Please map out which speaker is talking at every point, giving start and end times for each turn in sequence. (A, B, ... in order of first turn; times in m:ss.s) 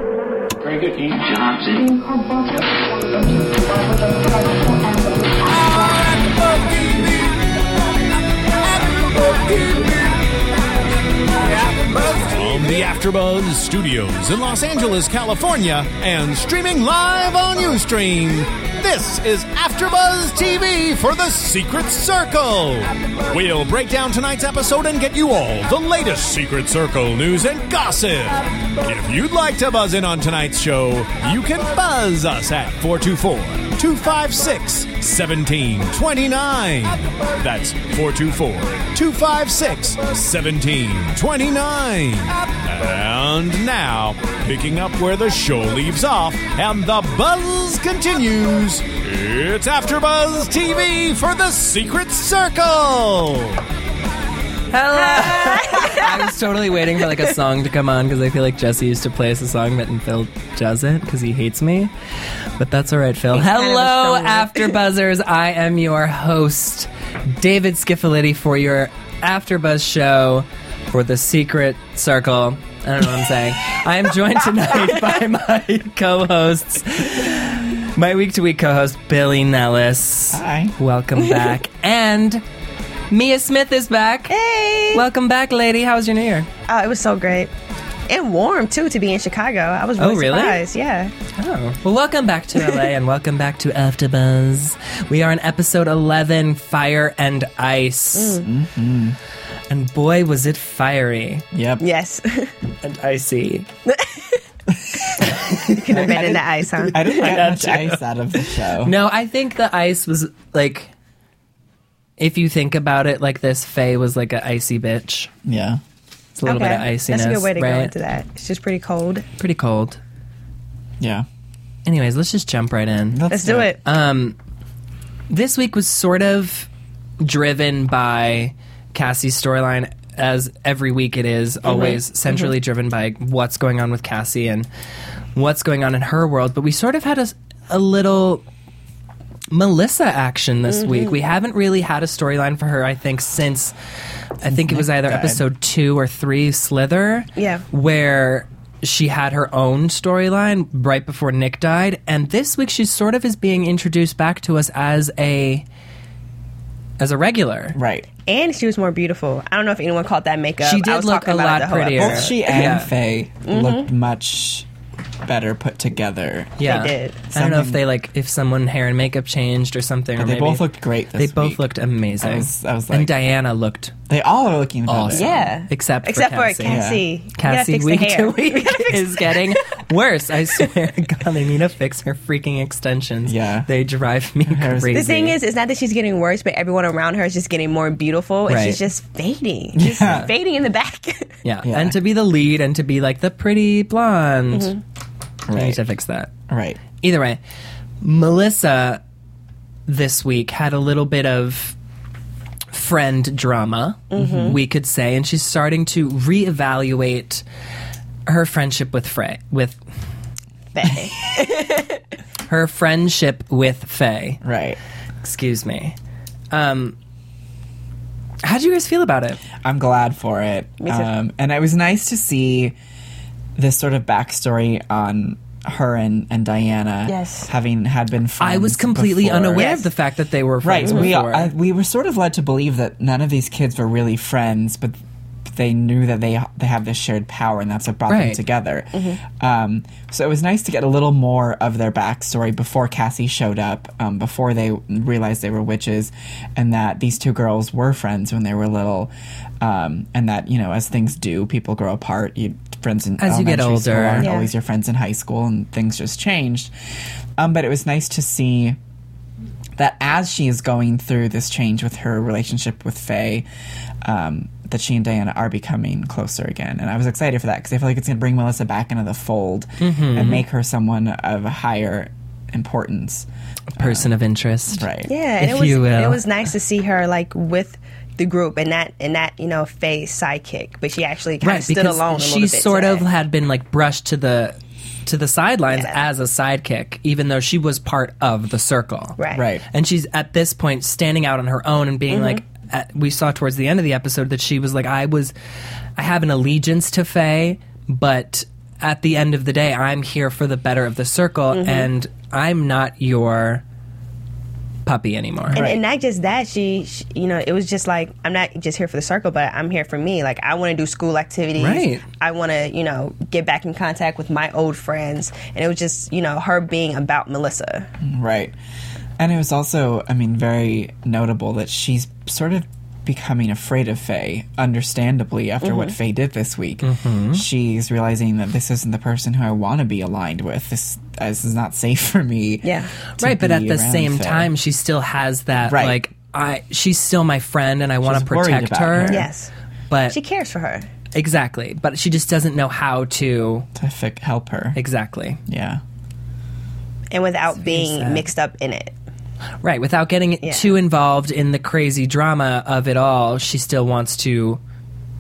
0:09.0-0:09.8 A
0:11.8-0:53.6 A
0:54.7-1:01.9 B
0:54.9-0:56.2 C
1:02.6-1:22.4 B
1:03.3-1:04.8 C
1:20.3-1:20.8 D
1:23.1-1:24.4 B
1:24.3-1:25.1 C
1:24.9-1:26.5 B
1:26.7-1:27.5 C
1:28.1-1:31.1 C
1:30.0-1:30.6 B
1:31.4-1:38.4 B
1:38.2-1:38.4 C
1:38.4-1:39.2 D
1:39.7-1:41.4 B
1:41.5-1:41.8 D
1:41.8-1:42.5 C
1:42.8-1:43.7 B
1:43.9-1:44.4 C
1:44.9-1:45.3 D
1:45.4-1:50.9 B
1:45.6-1:47.4 C
1:45.9-1:46.3 D
1:46.9-1:48.9 D
1:52.2-1:55.3 B
1:55.4-1:55.8 D
1:56.4-1:57.9 B
1:56.4-1:59.3 C
1:59.4-2:00.0 B
2:01.0-2:01.3 D
2:01.8-2:03.2 B
2:03.1-2:03.8 D
2:03.3-2:03.8 C
2:03.8-2:04.4 B
2:05.3-2:06.7 B
2:07.2-2:14.7 B
2:11.7-2:12.0 C
2:15.4-2:18.4 B
2:19.5-2:23.7 B
2:20.7-2:21.2 C
2:24.4-2:35.6 B
2:24.4-2:25.4 D
2:27.4-2:27.6 C
2:37.0-2:37.8 B
2:37.7-2:38.1 D
2:38.3-2:42.4 C
2:40.6-2:42.9 B
2:42.0-2:44.7 D
2:43.5-2:43.9 C
2:45.2-2:46.6 D
2:46.6-2:53.9 B
2:46.6-2:47.2 C
2:47.3-2:47.8 D
2:50.2-2:51.7 D
2:52.2-2:53.1 D
2:54.1-2:55.5 D
2:54.9-2:56.8 B
2:55.1-2:59.6 C
2:56.6-2:57.1 D
2:57.4-3:05.4 B
3:03.3-3:03.7 D
3:04.4-3:05.2 D
3:04.9-3:11.3 C
3:08.5-3:08.8 B
3:09.8-3:10.3 D
3:10.0-3:10.3 B
3:11.4-3:14.7 B
3:11.6-3:12.0 D
3:14.5-3:14.8 C
3:15.5-3:15.9 D
3:15.5-3:16.3 B
3:16.5-3:16.8 D
3:17.0-3:17.4 B
3:18.0-3:19.0 B
3:19.9-3:21.8 B
3:22.7-3:27.4 B
3:24.1-3:24.6 C
3:24.2-3:24.6 D
3:28.3-3:29.8 B
3:30.7-3:32.0 C
3:32.5-3:34.4 B
3:34.4-3:34.8 D
3:35.2-3:36.0 B
3:36.5-3:37.0 B
3:38.4-3:39.4 B
3:39.6-3:42.8 D
3:40.8-3:41.1 C
3:43.6-3:49.7 D
3:47.1-3:47.5 C
3:48.4-3:51.5 B
3:49.6-3:49.9 C
3:50.6-3:55.0 D
3:55.5-4:16.7 D
3:58.1-3:58.4 B
3:58.9-3:59.2 C
4:13.2-4:14.3 B
4:14.2-4:14.5 C
4:17.4-4:18.8 D
4:19.8-4:23.5 D
4:24.0-4:34.1 D
4:29.8-4:30.4 B
4:33.7-4:34.9 B
4:34.7-4:35.1 D
4:35.1-4:43.1 C
4:35.4-4:36.3 B
4:41.4-4:49.2 B
4:45.7-4:46.0 C
4:49.2-4:49.5 C
4:49.3-4:49.6 D
4:49.7-4:55.3 B
4:52.1-4:52.4 C
4:56.0-5:03.6 B
5:01.5-5:01.9 C
5:04.9-5:05.6 B
5:05.5-5:17.9 C
5:05.5-5:05.8 D
5:11.6-5:12.0 B
5:18.0-5:18.6 D
5:19.2-5:34.5 D
5:25.6-5:25.9 C
5:26.8-5:27.4 B
5:32.6-5:32.9 C
5:33.2-5:39.3 B
5:35.7-5:36.0 D
5:38.0-5:39.3 D
5:39.1-5:39.5 C
5:39.9-5:40.2 B
5:40.1-5:40.9 C
5:41.2-5:43.7 B
5:43.8-5:44.8 D
5:44.8-5:45.4 B
5:45.5-5:45.8 D
5:47.1-5:48.9 C
5:47.5-5:48.3 B
5:49.6-5:54.6 B
5:50.4-5:50.8 C